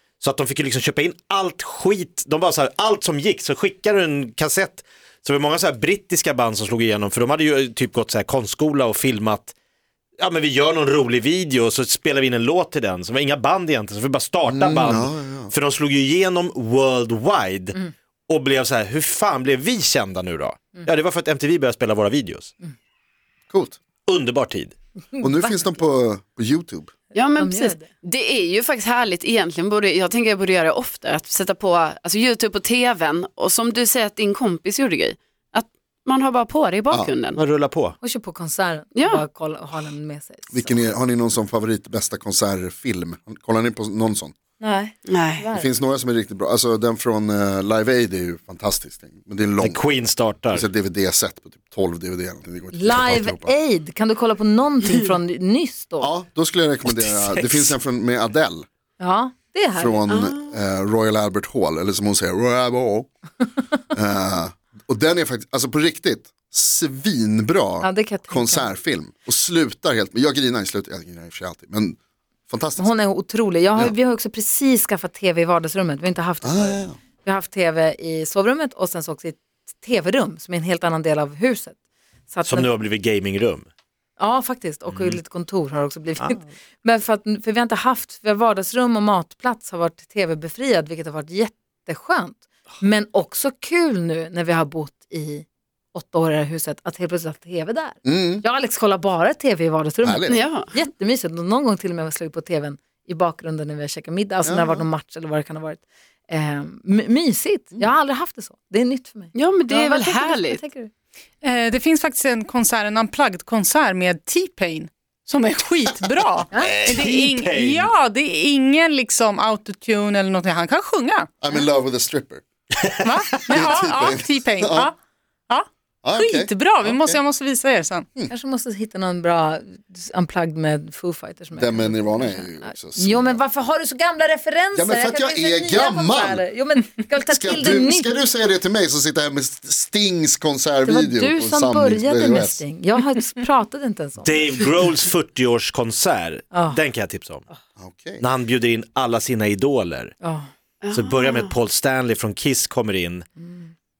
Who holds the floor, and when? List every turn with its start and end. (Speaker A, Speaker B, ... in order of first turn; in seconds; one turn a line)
Speaker A: 0.2-9.5
Speaker A: 10.2-22.5
Speaker B: 14.5-15.5
Speaker B: 23.5-23.8
Speaker A: 24.1-24.7
Speaker C: 25.1-25.5
Speaker B: 25.2-26.9
Speaker D: 27.1-37.4
Speaker C: 27.4-27.9
Speaker A: 37.3-38.0
Speaker C: 38.0-40.8
Speaker D: 39.0-39.2
Speaker B: 40.5-44.3
Speaker C: 44.6-45.7
Speaker D: 45.1-45.4
Speaker B: 45.5-49.8
Speaker A: 49.6-50.6
Speaker B: 50.5-53.5
Speaker C: 52.7-56.1
Speaker B: 56.0-58.6
Speaker A: 56.9-57.7
Speaker C: 59.0-60.0
Speaker B: 59.8-63.1
Speaker D: 60.1-60.5
Speaker B: 63.9-72.0
Speaker C: 67.8-68.7
Speaker B: 72.5-72.9
Speaker C: 72.8-81.8
Speaker B: 76.4-77.0
Speaker C: 82.3-82.7
Speaker A: 82.5-83.7
Speaker C: 84.2-110.9
Speaker A: 84.9-85.2
Speaker B: 98.0-98.4
Speaker B: 100.0-100.4
Speaker D: 100.3-100.7
Speaker B: 104.4-104.8
Speaker D: 109.3-110.6
Speaker E: 111.4-121.3
Speaker A: 116.5-117.9
Speaker B: 121.4-122.4
Speaker A: 122.8-123.1
Speaker E: 123.0-124.9
Speaker B: 123.5-124.9
Speaker B: 126.0-127.2
Speaker E: 126.2-128.1
Speaker C: 128.3-138.1
Speaker B: 131.6-133.4
Speaker B: 134.7-136.4
Speaker B: 137.3-142.6
Speaker C: 140.8-144.6
Speaker A: 144.2-147.4
Speaker C: 146.5-146.8
Speaker B: 147.8-148.2
Speaker A: 148.2-150.1
Speaker C: 150.2-150.5
Speaker D: 150.8-151.5
Speaker A: 150.9-153.2